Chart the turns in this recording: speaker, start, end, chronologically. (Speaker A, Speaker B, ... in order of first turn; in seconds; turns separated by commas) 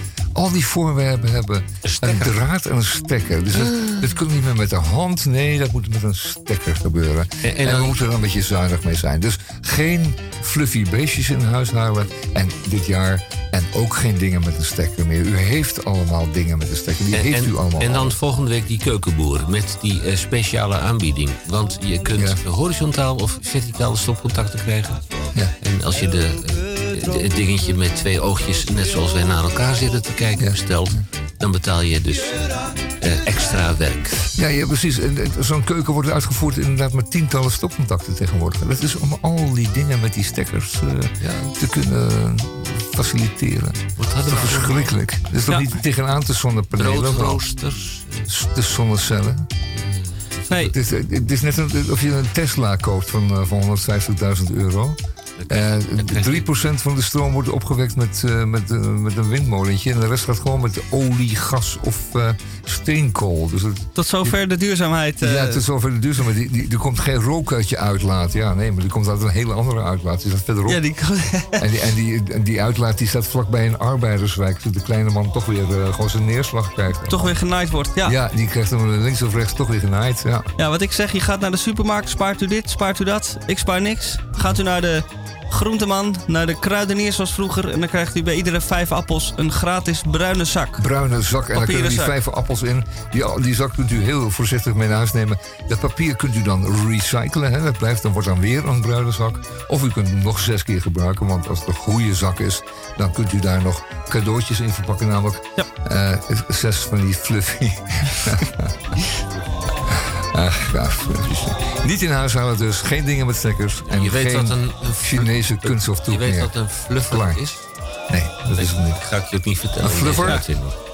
Speaker A: 0.3-18.2, Speaker B: 1.8-2.4, Speaker B: 3.5-4.1, Speaker B: 7.4-8.0, Speaker B: 17.1-34.3, Speaker A: 22.1-22.4, Speaker A: 30.4-31.0, Speaker A: 34.3-47.5, Speaker B: 41.2-41.5, Speaker B: 44.0-45.0, Speaker B: 46.8-48.3, Speaker A: 48.3-49.5, Speaker B: 49.7-50.7, Speaker A: 50.7-55.0, Speaker B: 55.4-56.5, Speaker A: 55.5-64.4, Speaker C: 64.0-65.6, Speaker A: 65.2-70.8, Speaker C: 70.7-71.7, Speaker A: 71.6-77.4, Speaker C: 77.1-78.2, Speaker A: 78.0-80.5, Speaker C: 80.6-90.9, Speaker A: 90.8-109.2, Speaker C: 91.5-92.1, Speaker A: 109.9-117.5, Speaker B: 113.9-117.6, Speaker A: 118.1-119.0, Speaker B: 118.5-120.8, Speaker A: 119.8-120.5